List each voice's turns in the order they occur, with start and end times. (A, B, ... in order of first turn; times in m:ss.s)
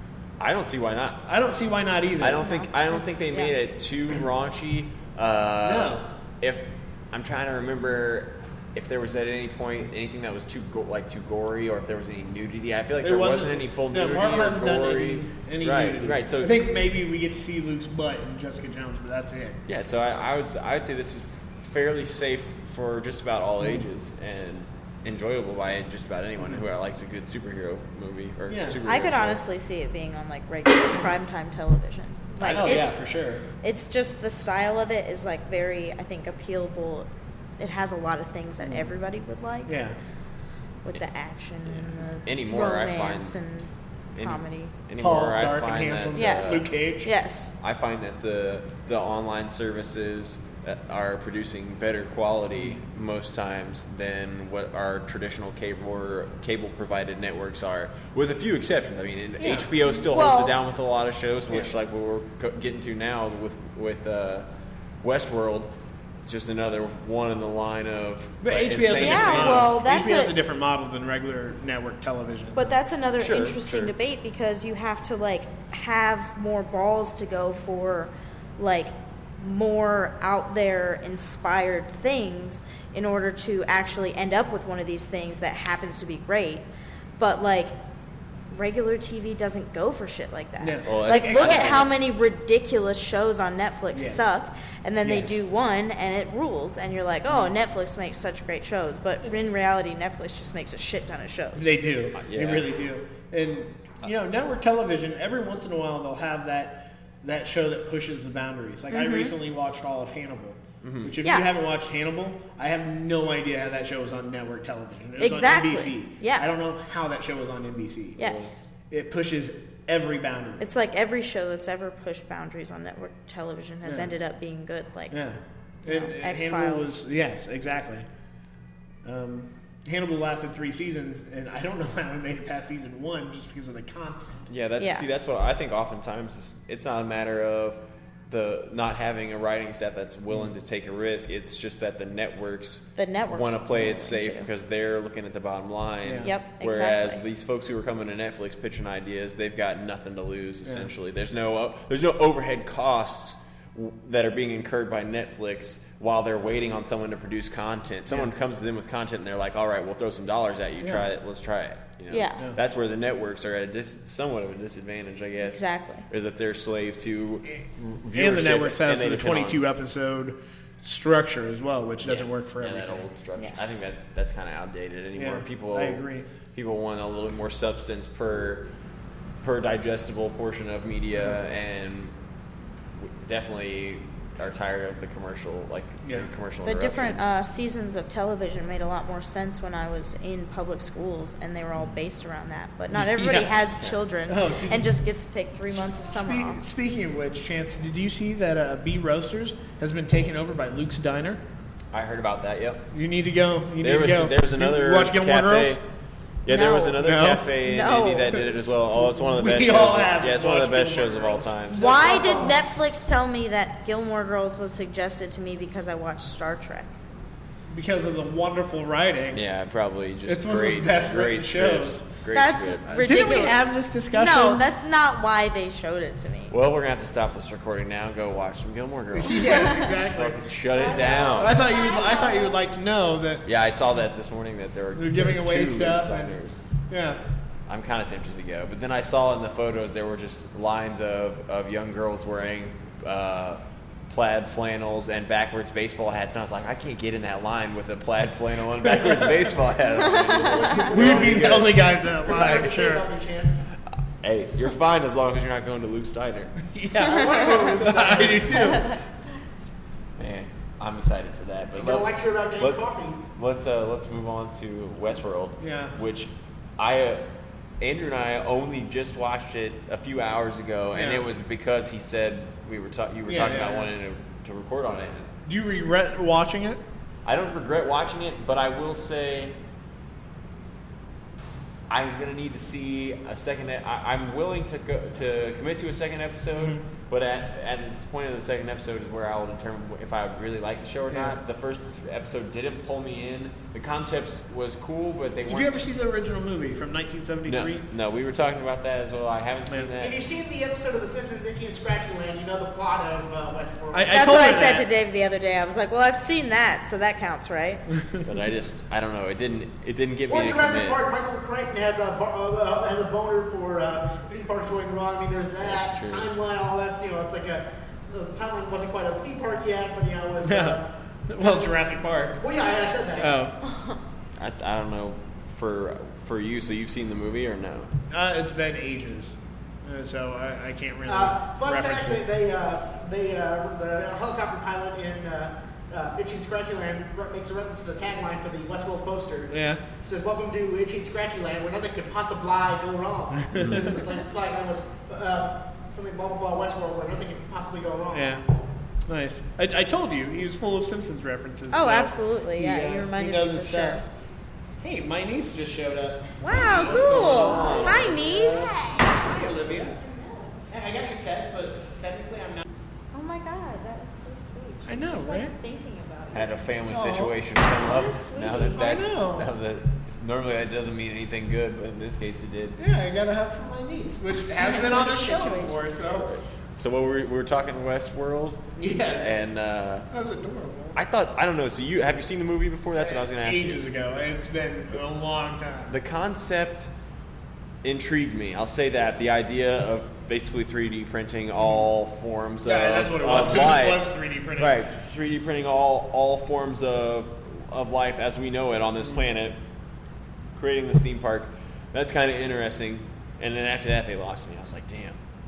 0:00.4-0:01.3 A
0:01.2-0:02.5 B
0:02.2-0:16.6 A
0:02.4-0:03.5 C
0:05.6-0:06.1 B
0:13.0-0:19.6 B
0:19.7-0:29.4 A
0:28.5-0:28.8 B
0:28.8-0:39.8 C
0:32.4-0:33.0 A
0:32.4-0:33.5 B
0:38.6-0:38.9 B
0:39.6-0:40.0 B
0:40.8-0:44.7 C
0:41.6-0:43.4 A
0:44.1-0:46.8 A
0:45.0-0:47.1 B
0:46.1-0:47.5 C
0:47.6-1:04.5 A
0:59.4-0:59.8 B
1:00.0-1:00.6 C
1:05.0-1:05.7 A
1:06.2-1:09.8 A
1:08.4-1:12.8 B
1:08.9-1:10.3 C
1:12.5-1:26.6 C
1:13.2-1:13.9 A
1:27.2-1:27.7 C
1:28.5-1:41.8 C
1:30.6-1:31.8 B
1:30.8-1:32.0 A
1:33.9-1:34.2 B
1:35.0-1:35.3 B
1:37.3-1:37.5 B
1:41.6-2:00.6 B
1:42.1-1:42.7 A
1:48.9-1:49.3 C
1:50.8-1:51.1 A
1:51.2-1:51.5 C
1:55.2-1:56.5 C
1:58.2-1:58.6 C
1:58.2-1:58.5 A
2:00.6-2:05.2 C
2:03.8-2:04.2 B
2:05.1-2:08.1 B
2:05.8-2:07.0 C
2:09.0-2:14.5 B
2:14.5-2:49.6 A
2:14.8-2:15.0 C
2:23.0-2:24.5 C
2:26.0-2:26.3 B
2:26.2-2:27.2 C
2:30.6-2:30.9 B
2:40.8-2:41.0 B
2:42.1-2:42.5 C
2:45.4-2:46.0 C
2:47.4-2:53.1 B
2:52.0-2:58.7 A
2:53.4-2:53.8 C
2:55.1-2:56.3 B
2:59.4-3:02.1 A
3:03.0-3:07.2 A
3:06.0-3:06.3 B
3:06.6-3:16.6 C
3:12.9-3:13.6 B
3:14.3-3:14.8 B
3:15.9-3:21.4 B
3:21.9-3:22.9 A
3:22.9-3:25.8 B
3:23.8-3:25.8 A
3:26.4-3:31.9 A
3:26.5-3:28.4 C
3:27.0-3:27.5 B
3:29.0-3:31.6 B
3:31.7-3:32.7 D
3:31.7-3:36.9 C
3:37.7-3:39.4 B
3:39.3-3:43.2 A
3:40.2-3:42.1 B
3:42.3-3:46.5 C
3:43.0-3:44.6 B
3:46.5-3:51.6 A
3:49.1-3:53.4 B
3:49.5-3:49.8 C
3:50.8-3:51.5 D
3:50.9-3:52.6 C
3:53.4-3:56.6 A
3:54.9-3:56.3 B
3:56.9-3:57.2 B
3:57.7-4:11.9 A
4:09.0-4:09.2 B
4:10.4-4:13.1 B
4:10.6-4:11.7 D
4:12.2-4:13.6 D
4:14.2-4:16.6 A
4:16.6-4:19.0 B
4:17.0-4:18.8 D
4:20.2-4:35.3 A
4:21.8-4:23.2 D
4:25.6-4:26.0 B
4:30.9-4:31.2 B
4:33.3-4:33.9 B
4:35.4-4:36.8 B
4:37.2-4:39.6 A
4:41.9-4:55.8 A
4:46.6-4:46.8 B
4:51.1-4:51.4 B
4:55.5-4:57.8 B
4:57.4-5:00.2 A
4:59.7-5:00.0 B
5:00.0-5:04.4 D
5:03.9-5:04.8 B
5:04.1-5:07.9 C
5:08.2-5:11.0 A
5:10.3-5:20.8 D
5:15.6-5:16.3 A
5:20.4-5:22.4 B
5:22.4-5:23.4 D
5:23.2-5:23.6 B
5:23.6-5:24.0 C
5:24.4-5:27.9 A
5:28.1-5:32.2 B
5:31.1-5:48.4 D
5:39.5-5:39.8 B
5:43.4-5:43.9 B
5:43.6-5:43.9 A
5:48.1-5:48.4 B
5:49.0-5:54.0 B
5:51.7-5:54.0 C
5:54.8-6:00.0 B
5:56.4-5:59.2 C
5:56.8-5:58.8 A
6:00.0-6:00.5 C
6:00.6-6:02.6 B
6:03.1-6:06.6 C
6:04.9-6:05.5 B
6:06.3-6:12.8 A
6:06.9-6:07.3 B
6:07.7-6:08.8 C
6:08.7-6:09.5 B
6:12.8-6:16.4 B
6:14.5-6:15.8 C
6:15.8-6:20.1 A
6:18.8-6:19.3 B
6:20.1-6:21.0 B
6:20.9-6:23.9 A
6:23.0-6:25.9 B
6:25.9-6:26.9 A
6:27.8-6:39.6 A
6:32.6-6:34.8 B
6:40.5-6:45.2 A